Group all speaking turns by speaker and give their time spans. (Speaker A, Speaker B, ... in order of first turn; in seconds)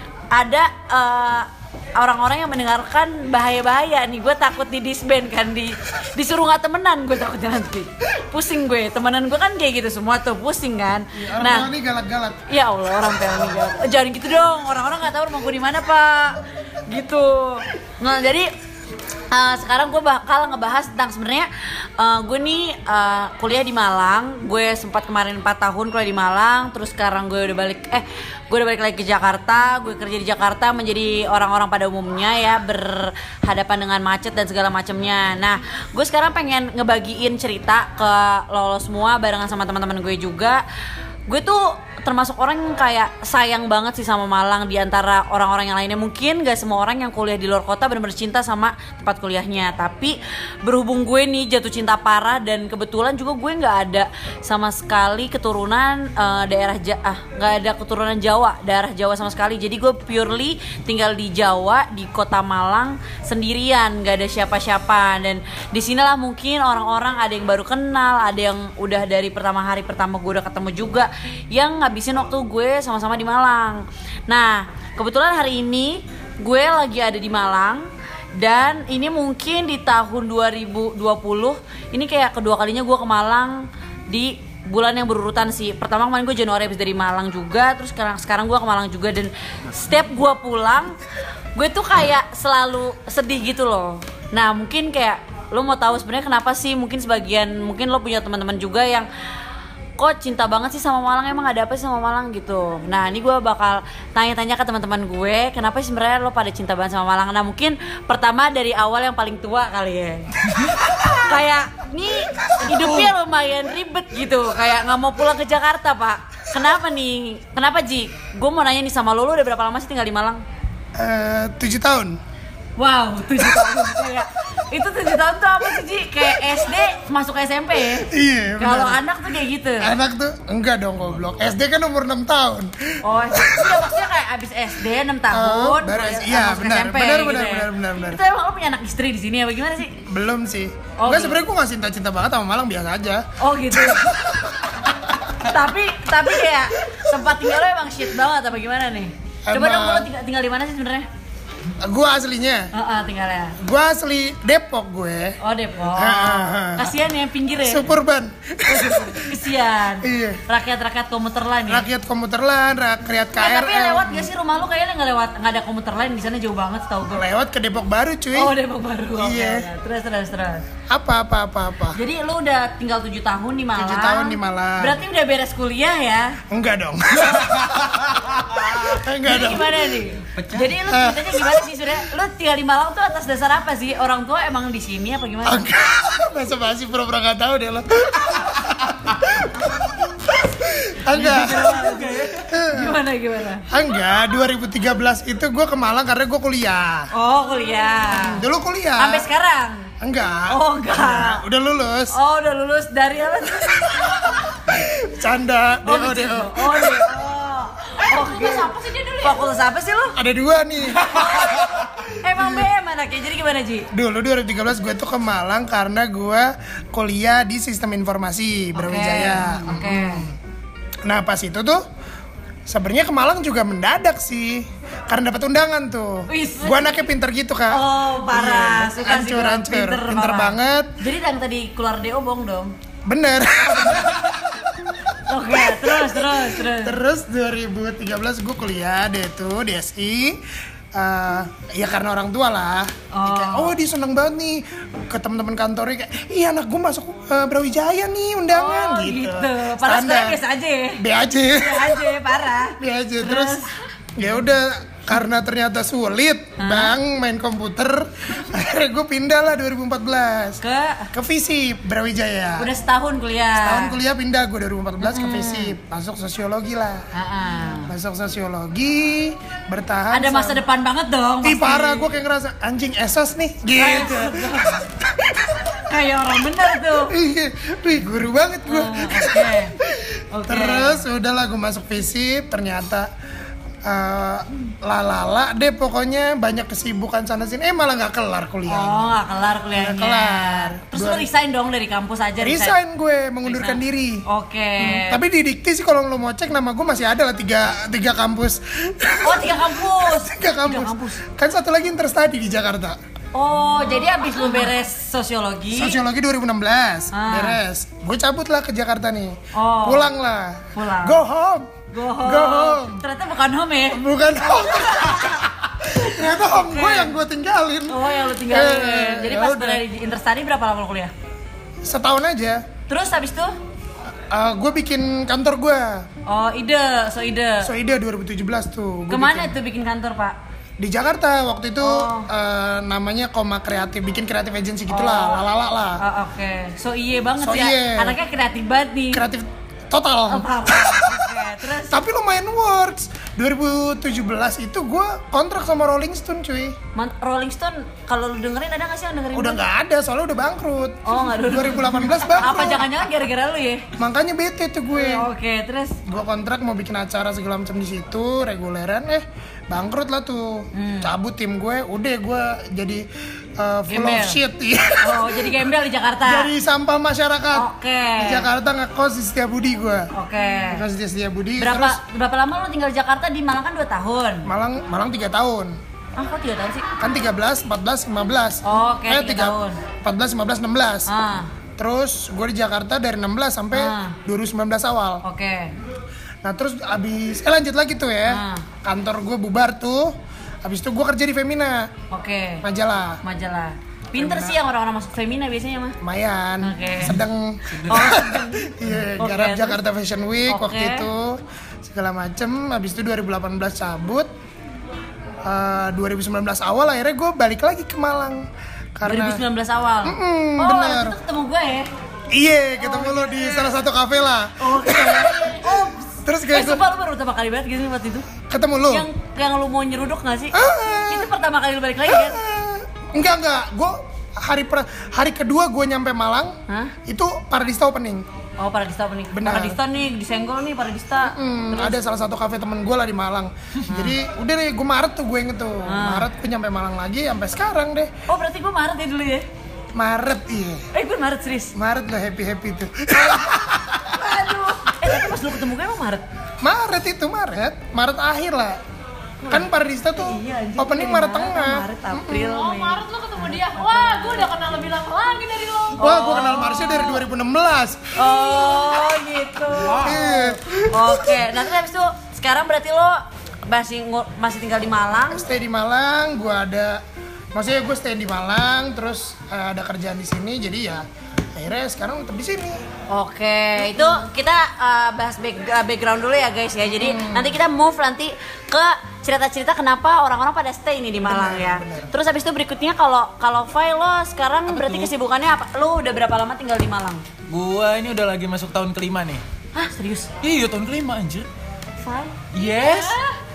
Speaker A: 0.3-11.7, 12.5-18.5, 19.3-40.6, 41.3-91.0, 91.5-99.1, 100.0-110.3, 111.1-120.4, 122.8-129.9, 133.0-140.0, 141.0-141.4, 143.4-144.2, 145.4-151.1, 152.7-153.6, 155.4-157.9, 158.7-161.9, 163.4-167.2, 168.3-170.7, 171.9-176.4, 179.2-185.7, 191.5-191.9, 192.7-193.7, 197.1-198.4, 199.0-199.9, 200.5-201.4, 202.1-204.4, 205.8-208.7, 209.2-210.2, 211.1-211.5, 212.2-213.9, 218.8-220.3, 226.3-227.0, 227.7-232.7, 233.7-234.1, 235.3-237.0, 243.1-243.8, 248.5-251.0, 251.6-253.7, 256.6-256.9, 260.6-261.1, 262.6-264.0, 265.0-265.8, 267.1-267.9, 270.1-272.1, 273.8-274.8, 275.9-277.1, 278.7-279.7, 280.3-281.0, 288.7-292.8, 293.4-295.2, 299.2-301.1, 303.3-306.0, 307.1-307.6, 309.5-310.1, 310.7-311.2, 311.9-315.4, 315.9-317.1, 317.9-321.1, 322.9-323.5, 326.3-327.7, 329.1-330.4, 331.8-332.3, 334.9-335.4, 336.0-339.2, 340.3-342.0, 346.9-349.6, 351.1-353.8, 354.9-356.0, 360.7-361.1, 363.9-364.4, 365.0-366.5, 367.5-368.4, 370.1-370.9, 371.6-374.5, 376.2-376.9, 378.6-379.8, 381.1-381.5, 383.7-384.2, 385.2-385.7, 388.3-388.7, 392.1-392.6, 393.2-396.0, 396.6-397.2, 397.9-399.8, 400.5-401.1, 409.1-411.9, 412.8-413.8, 414.6-418.3, 418.9-422.4, 426.7-426.9, 428.6-432.0, 433.9-434.2, 435.9-436.3, 438.3-439.4, 440.9-441.7, 444.1-446.2, 449.4-454.5, 456.0-457.2, 458.1-465.4, 473.1-487.2, 489.7-490.3, 492.0-492.4
Speaker B: 11.1-12.4, 110.9-111.2, 112.6-113.1, 121.0-122.2, 123.4-123.9, 128.1-129.0, 129.8-133.9, 135.3-138.2, 140.0-144.9, 149.4-150.1, 151.8-152.7, 153.6-155.4, 155.9-156.9, 157.6-159.4, 160.0-160.4, 161.7-164.3, 167.1-168.5, 169.2-169.7, 170.9-172.0, 173.8-175.0, 176.5-180.0, 180.9-181.9, 185.4-193.0, 193.7-197.1, 198.1-199.3, 200.0-202.1, 203.8-207.2, 210.2-211.7, 212.3-212.7, 213.9-220.4, 221.0-221.8, 222.7-231.0, 233.1-240.4, 240.9-250.4, 251.0-252.2, 252.8-253.6, 254.2-260.6, 261.1-262.7, 263.6-267.0, 267.9-270.6, 271.4-275.8, 276.8-283.1, 283.9-289.2, 289.7-291.3, 292.4-294.2, 294.8-303.0, 304.3-304.6, 305.7-313.0, 313.9-319.8, 321.8-322.6, 324.3-326.1, 327.6-329.5, 330.8-336.0, 337.4-338.2, 339.1-346.8, 349.3-353.1, 354.0-355.3, 356.1-363.1, 363.6-365.7, 366.2-370.1, 370.7-372.0, 374.4-375.8, 377.0-381.1, 381.8-385.2, 386.4-391.9, 392.6-393.2, 394.1-394.6, 396.0-404.3, 405.4-409.4, 410.0-411.2, 412.3-416.8, 418.5-419.1, 420.5-421.3, 422.0-426.6, 427.1-428.3, 429.3-429.8, 431.2-438.1, 439.9-440.9, 441.8-444.4, 444.9-445.2, 446.6-448.8, 449.5-452.5, 456.0-458.8, 459.9-461.6, 465.3-467.0, 467.5-472.8, 473.8-474.3, 476.9-477.6, 481.2-482.1
Speaker C: 177.8-178.4, 180.3-180.8, 191.1-192.5, 397.0-398.1, 459.7-460.3, 484.7-485.1, 487.5-489.4, 490.4-491.5, 492.5-493.2
Speaker D: 208.0-209.4, 452.4-456.1, 492.6-493.4